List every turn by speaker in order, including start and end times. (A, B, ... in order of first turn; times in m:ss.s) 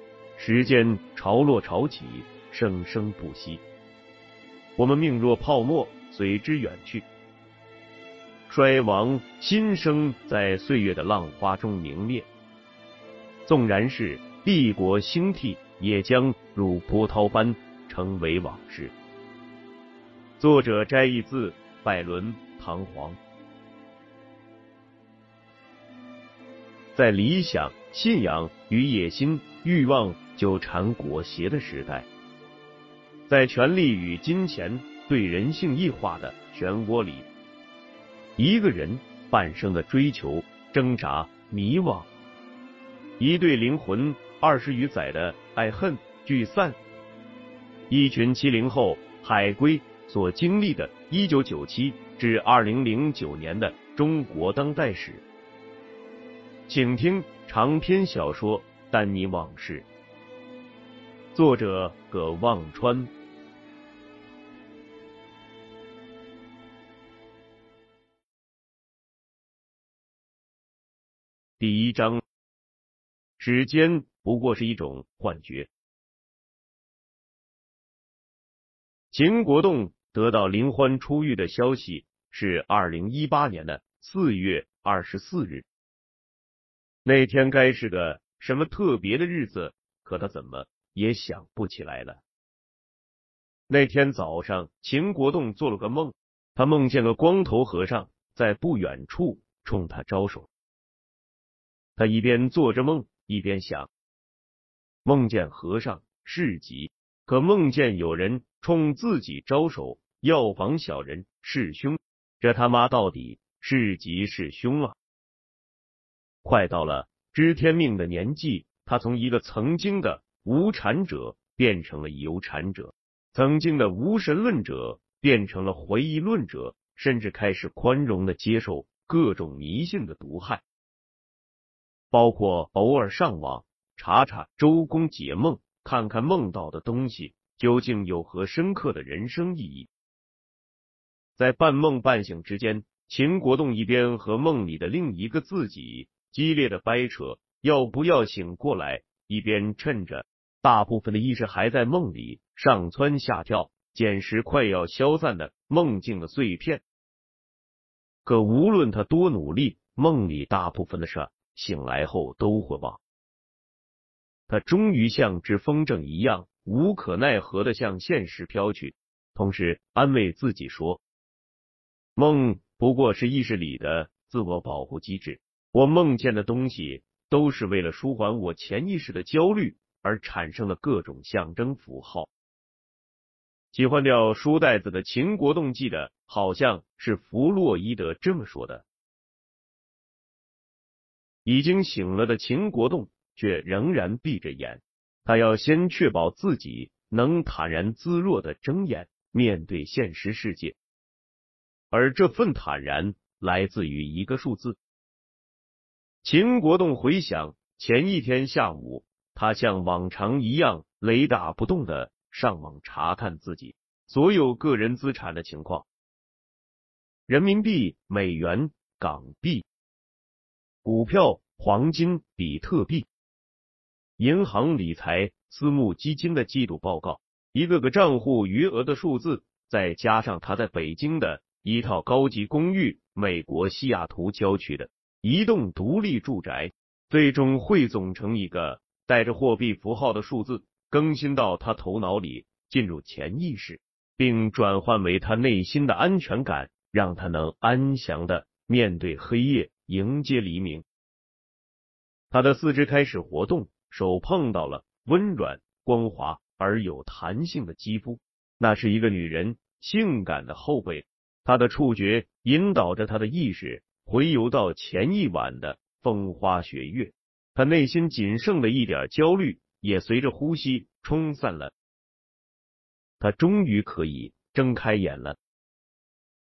0:00.4-0:03.6 A
0:04.8-0:07.0 A
0:08.5-0:12.3 A
0:13.5-0:18.9 A
0:20.4-0:23.2 A
0:27.0-0:32.1 A
0:33.3-0:37.3 A
0:38.4-0:42.1 A
0:43.2-0:46.8 A
0:47.9-0:55.2 A
0:56.7-0:59.9 A
1:01.3-1:03.1 A
1:11.6-1:12.2 A
1:13.4-1:15.7 A
1:19.1-1:25.7 A
1:27.0-1:32.2 A
1:33.7-1:40.5 A
1:42.0-1:43.9 A
1:45.0-1:54.9 A
1:56.4-2:10.6 A
2:12.1-2:19.9 A
2:21.4-2:36.8 A
2:38.2-2:43.0 A
2:44.5-2:51.0 A
2:52.2-3:02.3 A
3:03.7-3:08.8 A
3:11.4-3:20.8 A
3:21.9-3:24.8 A
3:26.2-3:35.8 A
3:37.3-3:39.7 A
3:40.8-3:43.1 A
3:44.2-4:10.8 A
4:12.3-4:31.7 A
4:33.2-4:35.4 A